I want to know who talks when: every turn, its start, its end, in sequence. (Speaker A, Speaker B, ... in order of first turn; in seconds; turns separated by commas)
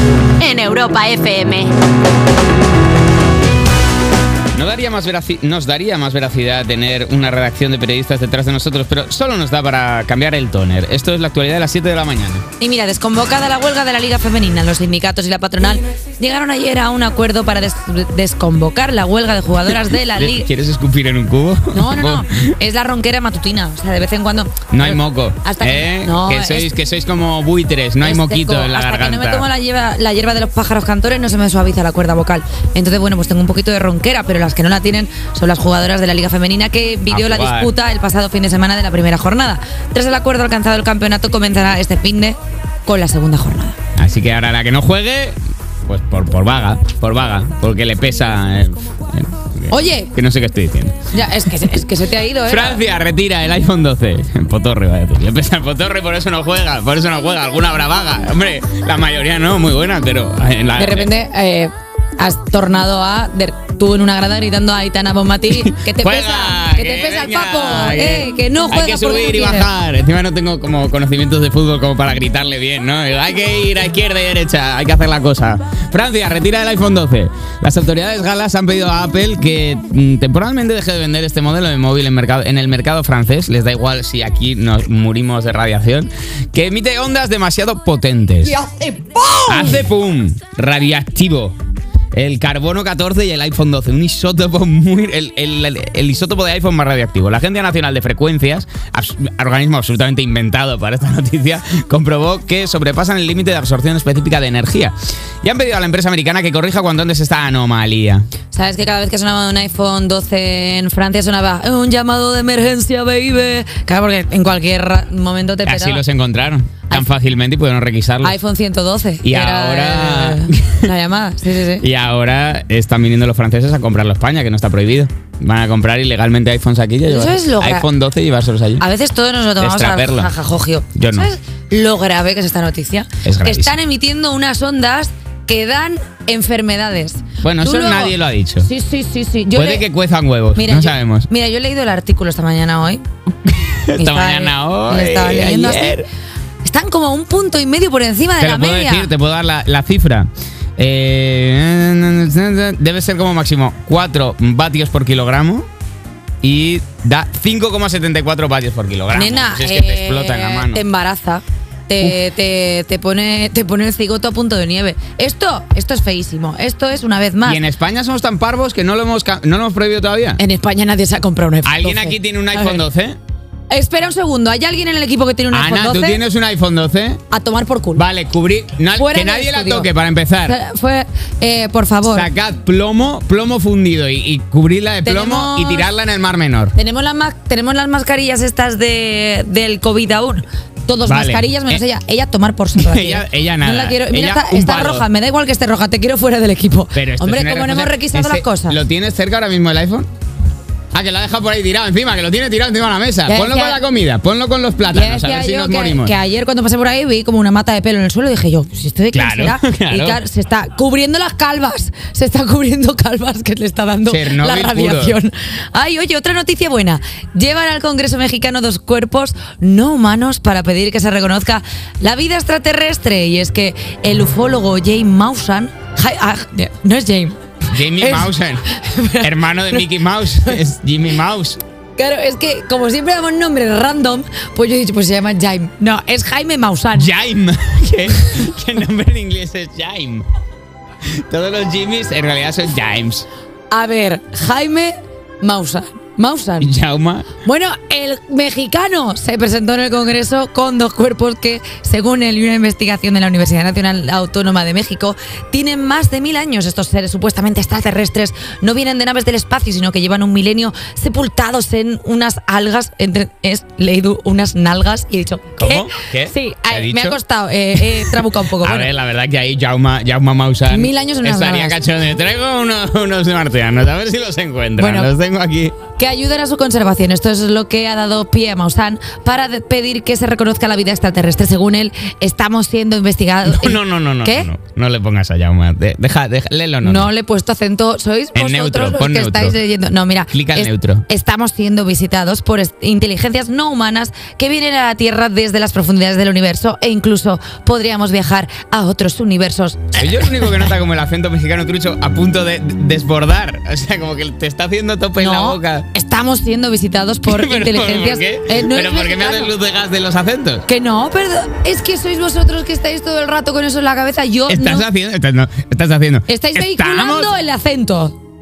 Speaker A: 0.4-1.7, Speaker B: 4.5-12.4, Speaker A: 12.6-20.5, Speaker B: 20.1-22.5, Speaker A: 21.7-26.7, Speaker B: 24.7-29.5, Speaker A: 28.0-43.8, Speaker B: 37.1-37.7, Speaker B: 44.0-51.0, Speaker A: 49.7-50.1, Speaker A: 51.1-52.8, Speaker B: 52.5-61.1, Speaker A: 60.8-69.7, Speaker B: 65.5-88.6, Speaker A: 88.7-89.4, Speaker B: 89.4-91.5, Speaker B: 92.1-108.2, Speaker A: 108.5-116.0, Speaker B: 115.7-118.3, Speaker A: 118.2-121.8, Speaker B: 119.2-120.9, Speaker B: 121.8-128.8, Speaker A: 127.0-127.9, Speaker A: 128.8-139.8, Speaker B: 129.6-130.3, Speaker B: 130.9-131.3, Speaker B: 133.2-133.8, Speaker B: 137.4-138.7, Speaker B: 139.5-141.3, Speaker A: 140.5-143.0, Speaker B: 143.4-146.1, Speaker A: 143.9-146.0, Speaker A: 146.6-149.1, Speaker B: 148.4-155.7, Speaker B: 156.4-160.8, Speaker A: 159.1-167.6, Speaker B: 167.4-170.4, Speaker A: 170.4-172.8, Speaker B: 171.6-173.2, Speaker A: 173.7-176.2, Speaker B: 175.5-177.2, Speaker A: 177.3-178.1, Speaker B: 177.9-180.6, Speaker A: 178.9-179.9, Speaker A: 180.4-182.3, Speaker B: 182.0-186.7, Speaker A: 185.0-185.9, Speaker A: 186.7-198.8, Speaker B: 191.1-191.8, Speaker B: 192.7-195.1, Speaker B: 196.9-200.1, Speaker B: 200.9-206.1, Speaker A: 203.3-203.8, Speaker A: 204.9-229.8, Speaker B: 209.1-210.2, Speaker B: 214.1-215.2, Speaker B: 227.7-231.6, Speaker A: 231.9-237.1, Speaker B: 236.9-240.2, Speaker B: 241.0-243.3, Speaker A: 243.7-246.7, Speaker B: 246.6-247.3, Speaker A: 247.4-268.9, Speaker B: 265.6-267.2, Speaker B: 267.7-275.8, Speaker A: 270.6-271.8, Speaker A: 274.8-275.1, Speaker A: 275.9-284.5, Speaker B: 283.4-287.1, Speaker A: 286.8-300.6, Speaker B: 288.3-289.6, Speaker B: 290.3-291.0, Speaker B: 299.9-305.9, Speaker A: 305.2-309.5, Speaker B: 307.3-310.6, Speaker A: 310.7-314.9, Speaker B: 314.5-317.3, Speaker A: 316.3-318.1